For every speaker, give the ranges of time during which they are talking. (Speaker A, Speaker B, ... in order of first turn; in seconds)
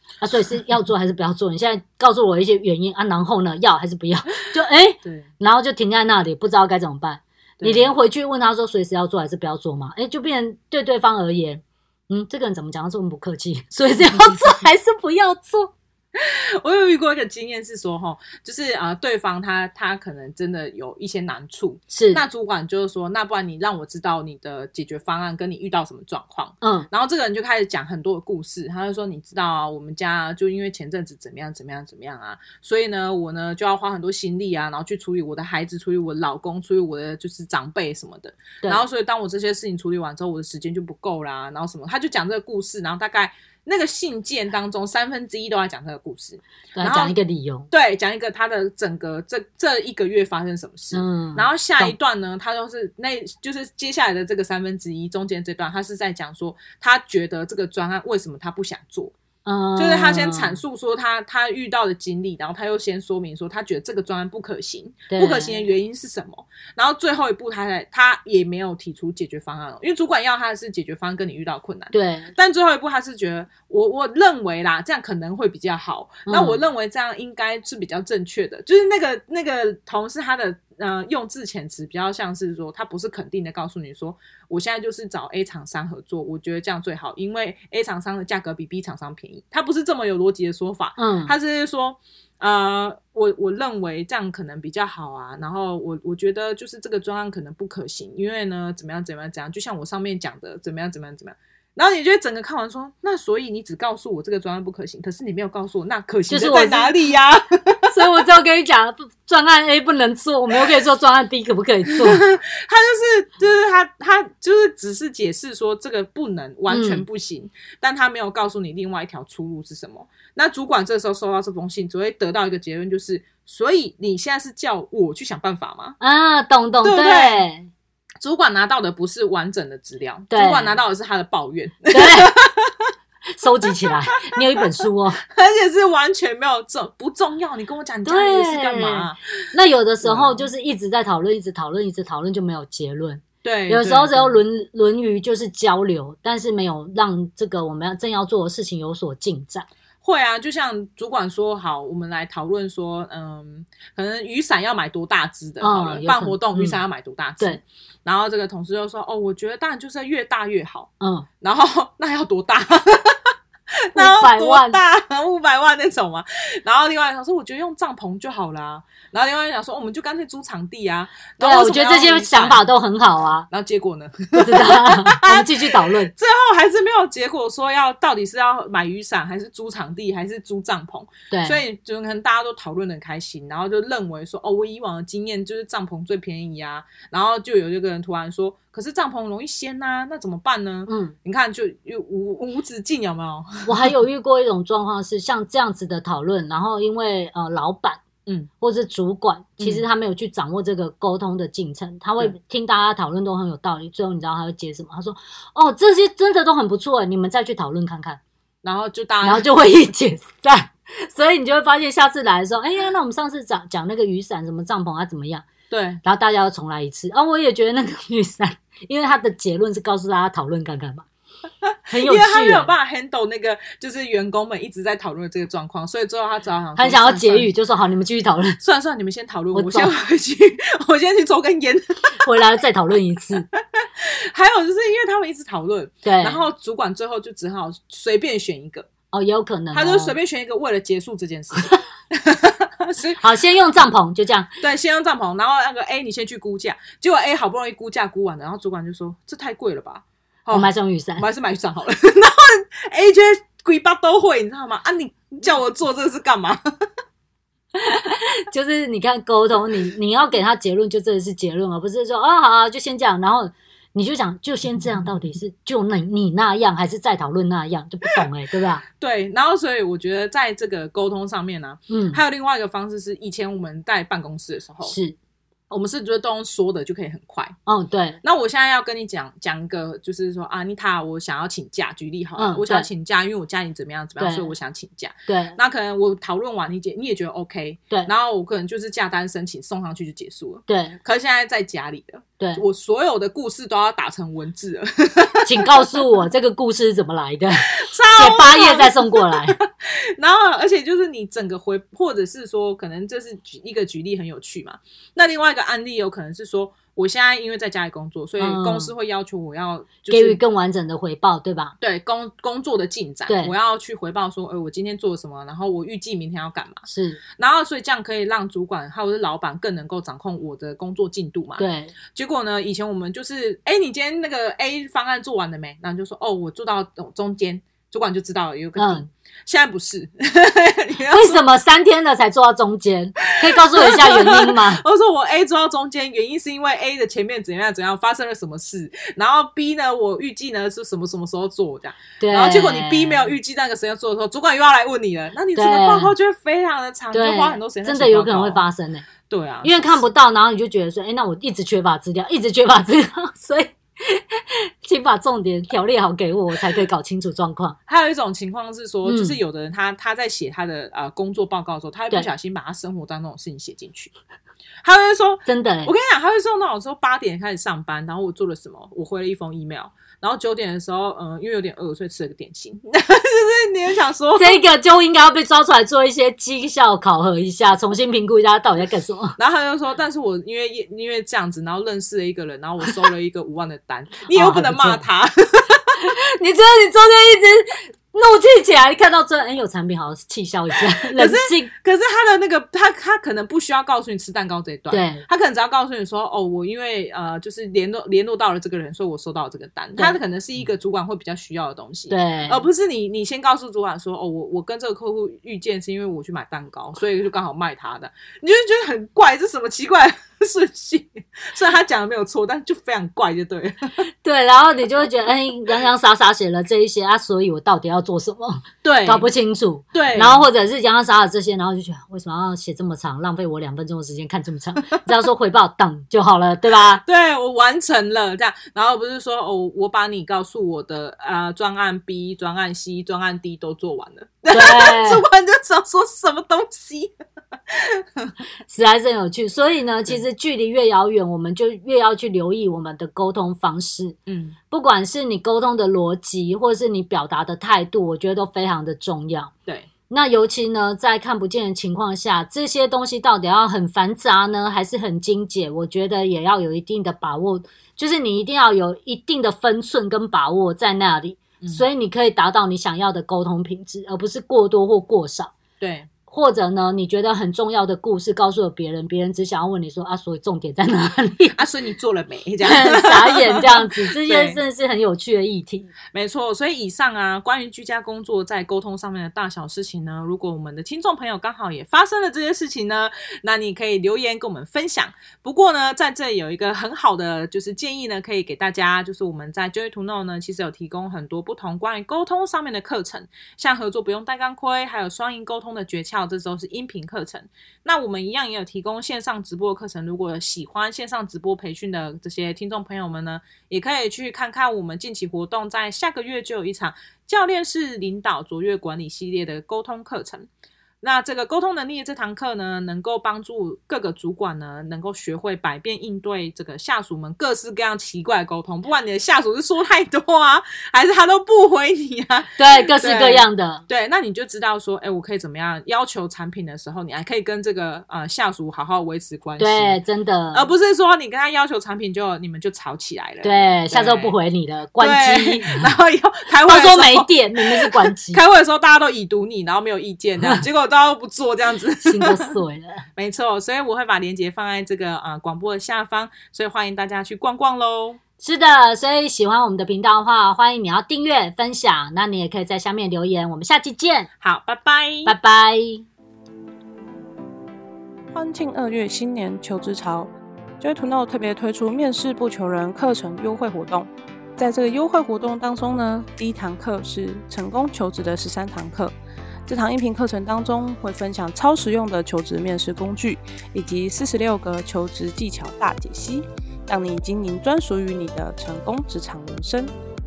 Speaker A: 0.2-15.7, 21.9-22.2, 26.6-26.9, 46.8-47.7, 50.9-51.9, 59.5-60.6, 65.1-65.6, 71.9-72.3, 76.3-76.6, 91.0-91.3, 106.3-106.9, 107.9-112.2, 116.7-117.0, 126.0-127.7, 130.3-130.8, 131.9-132.4, 133.3-135.2, 138.1-149.7, 155.6-156.8, 161.0-161.3, 163.9-164.8, 171.4-173.5, 174.3-176.1, 181.3-181.6, 190.9-191.2, 193.7-198.0, 198.6-208.2, 209.2-215.5, 216.0-221.1, 221.9-222.7, 226.8-228.6, 229.5-229.9, 232.2-233.5, 236.0-236.4, 239.1-240.2, 243.2-244.5, 250.5-251.2, 257.8-268.8, 271.9-272.2, 274.8-275.2, 277.7-278.2, 282.4-282.9, 284.2-284.5, 285.3-285.6, 290.7-291.0, 295.4-299.6, 308.4-308.9, 310.1-311.8, 313.3-313.5, 316.9-317.2, 321.6-321.9, 328.8-329.1, 331.1-334.8, 342.2-343.3, 345.6-346.1, 347.1-349.1, 349.6-357.8, 359.1-359.4, 365.5-365.9, 374.4-379.4, 384.3-385.0, 386.0-391.7, 394.9-395.2, 402.1-402.6, 414.2-427.0, 434.5-435.2, 438.7-444.2, 444.7-449.5, 450.1-465.5, 466.3-471.6, 472.6-475.9, 522.6-523.8, 529.6-530.7, 533.4-535.8, 536.6-538.4, 542.0-543.1, 548.4-554.3, 555.3-556.1
Speaker B: 7.6-7.9, 16.1-47.1, 47.7-59.1, 59.8-108.0, 111.9-126.0, 126.8-127.5, 128.2-132.9, 135.3-139.2, 140.0-140.4, 143.4-144.4, 150.0-160.9, 161.4-163.3, 163.9-172.6, 173.5-193.9, 199.6-199.8, 208.6-209.5, 215.7-216.0, 221.6-227.5, 228.6-232.3, 233.5-238.9, 239.7-243.2, 244.6-256.6, 268.9-274.9, 275.7-277.6, 278.2-295.9, 297.7-310.4, 311.8-316.8, 317.4-331.4, 333.4-348.6, 349.3-350.1, 357.9-364.1, 364.8-374.6, 379.4-385.9, 391.1-413.9, 418.8-419.3, 419.9-420.4, 427.0-437.1, 437.7-438.3, 444.3-444.6, 465.8-466.1, 471.5-474.6, 476.1-510.5, 511.0-530.0, 530.5-534.4, 535.0-542.5, 543.2-548.2, 554.4-555.3
Speaker C: 558.3-569.1, 569.7-579.9